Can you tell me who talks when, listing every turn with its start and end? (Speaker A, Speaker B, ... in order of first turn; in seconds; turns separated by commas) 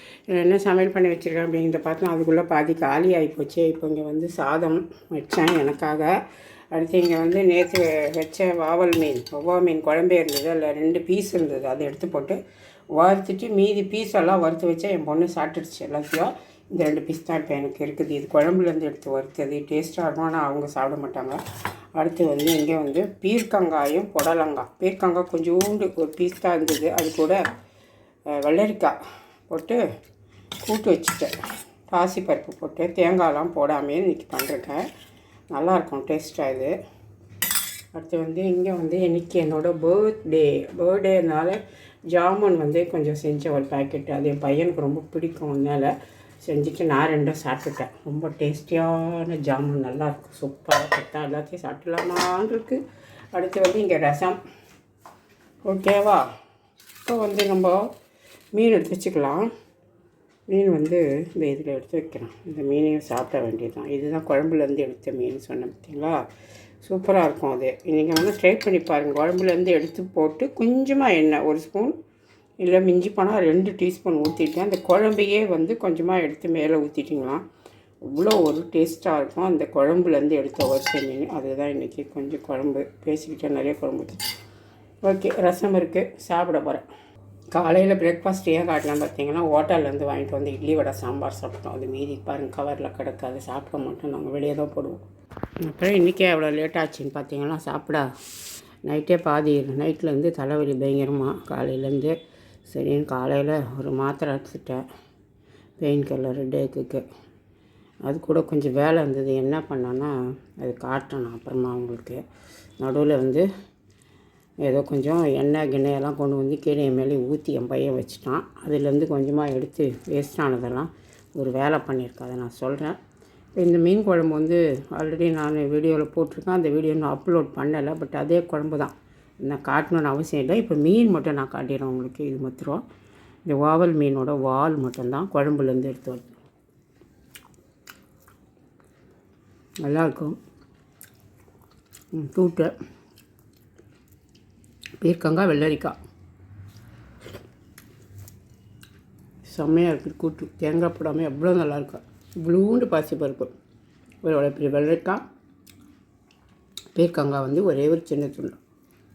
Speaker A: 0.3-6.1, Speaker A: 6.7-12.4, Speaker A: 12.9-21.4, Speaker A: 22.0-27.4, Speaker A: 28.3-29.0, Speaker A: 29.5-29.8, Speaker A: 30.6-31.3, Speaker A: 31.9-34.9, Speaker A: 35.5-36.7, Speaker A: 37.9-52.8, Speaker A: 53.3-54.4, Speaker A: 55.7-56.3, Speaker A: 57.0-57.9, Speaker A: 58.5-59.5, Speaker A: 60.5-66.2, Speaker A: 66.8-72.0, Speaker A: 72.6-77.4, Speaker A: 78.1-84.2, Speaker A: 85.0-86.8, Speaker A: 87.5-95.0, Speaker A: 95.6-98.1, Speaker A: 98.9-104.8, Speaker A: 105.8-107.0, Speaker A: 108.0-112.2, Speaker A: 112.8-113.5, Speaker A: 114.6-123.0, Speaker A: 123.6-132.8, Speaker A: 133.4-136.4, Speaker A: 139.8-140.4, Speaker A: 142.1-142.7, Speaker A: 145.0-146.0, Speaker A: 149.5-153.5, Speaker A: 154.2-155.2, Speaker A: 156.9-158.6